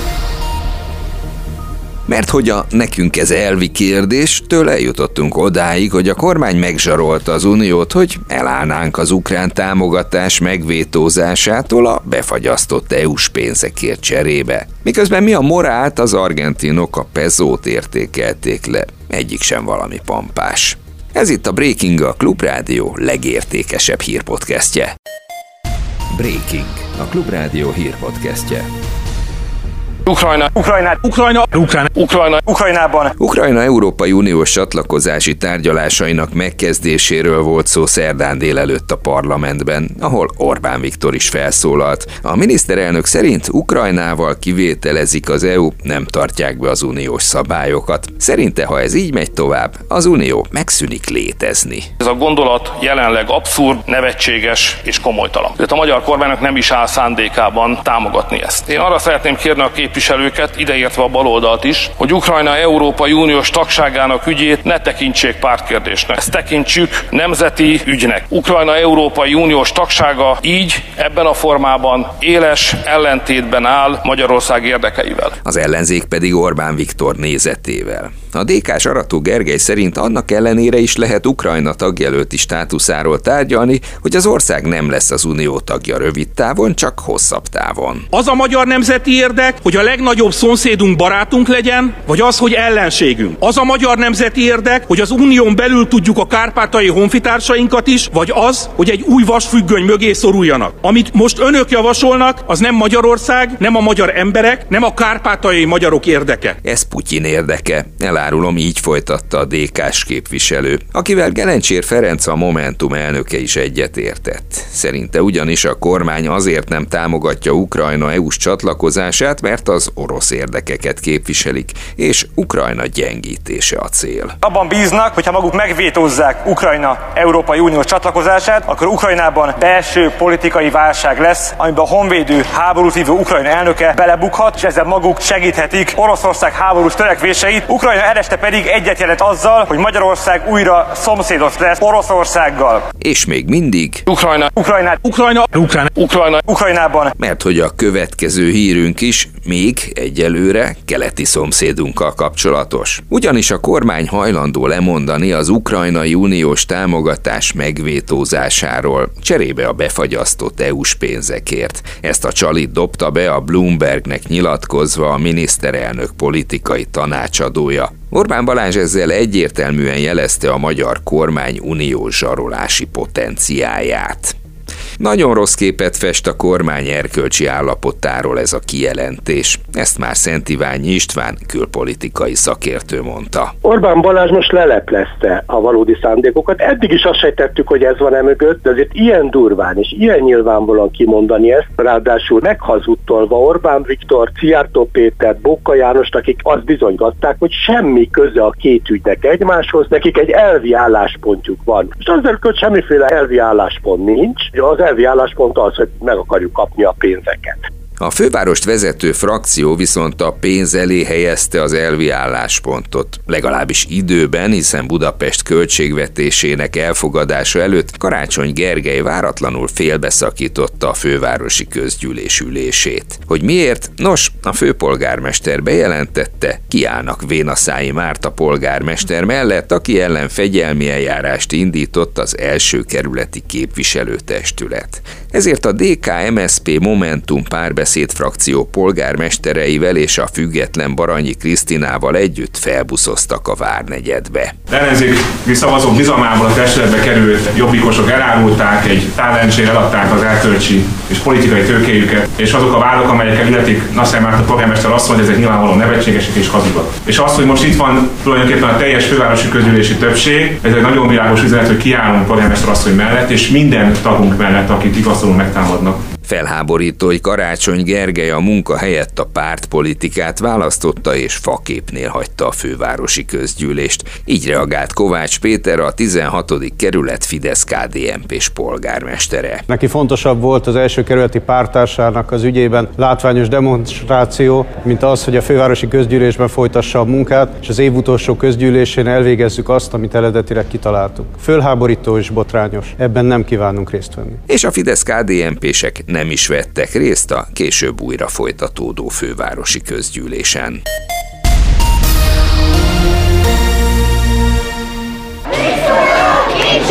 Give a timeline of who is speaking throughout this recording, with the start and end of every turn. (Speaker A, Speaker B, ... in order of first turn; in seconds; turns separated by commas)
Speaker A: 2.1-24.9, Speaker A: 26.1-28.6, Speaker B: 30.1-30.5, Speaker C: 30.5-31.0, Speaker D: 31.0-31.9, Speaker B: 31.9-32.4, Speaker C: 32.4-33.1, Speaker A: 33.2-51.9, Speaker B: 52.0-75.3, Speaker A: 75.4-88.1, Speaker D: 88.1-106.5, Speaker A: 106.6-124.3, Speaker C: 124.4-142.9, Speaker A: 143.0-144.0, Speaker B: 144.1-144.5, Speaker C: 144.6-145.0, Speaker D: 145.0-145.9, Speaker B: 145.9-146.4, Speaker C: 146.4-147.1, Speaker A: 147.2-174.4, Speaker A: 175.0-183.5, Speaker E: 183.6-207.6, Speaker A: 208.0-244.5, Speaker F: 244.7-266.0, Speaker A: 266.2-279.6, Speaker G: 279.7-294.4, Speaker A: 294.5-300.8